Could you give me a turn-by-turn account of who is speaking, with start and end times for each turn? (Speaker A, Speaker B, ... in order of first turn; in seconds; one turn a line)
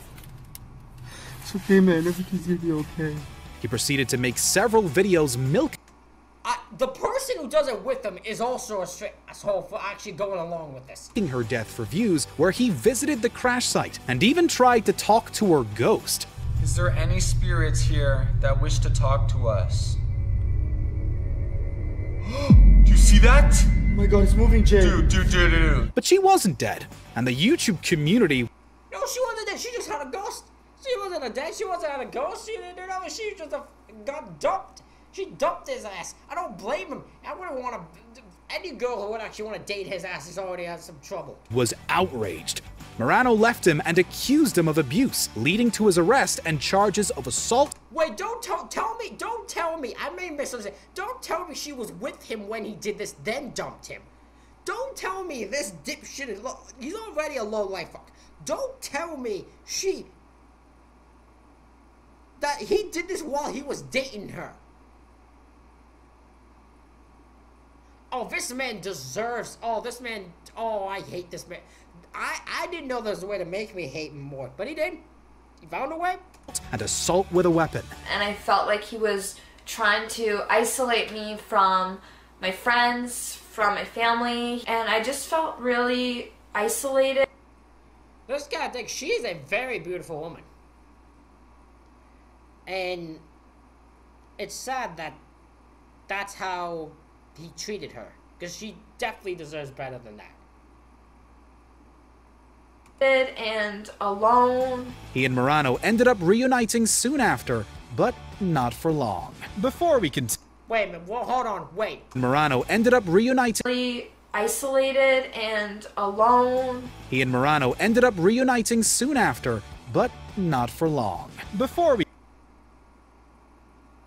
Speaker A: 1.4-3.2
Speaker B: 3.6-5.8
Speaker C: 6.4-11.1
Speaker B: 11.1-16.3
Speaker D: 16.6-20.0
Speaker D: 22.8-23.7
Speaker A: 23.9-25.1
Speaker D: 24.8-25.9
Speaker B: 25.9-28.5
Speaker C: 28.9-41.4
Speaker B: 41.5-47.8
Speaker C: 47.9-54.1
Speaker C: 54.6-60.1
Speaker C: 62.4-64.6
Speaker C: 68.1-75.0
Speaker C: 75.6-76.2
Speaker B: 76.5-77.9
Speaker E: 78.0-87.2
Speaker C: 88.3-90.5
Speaker C: 92.7-93.2
Speaker C: 94.4-95.2
Speaker C: 96.1-100.4
Speaker E: 103.0-105.0
Speaker B: 105.1-110.4
Speaker C: 110.7-112.1
Speaker B: 112.1-113.6
Speaker E: 113.6-116.9
Speaker B: 117.1-122.1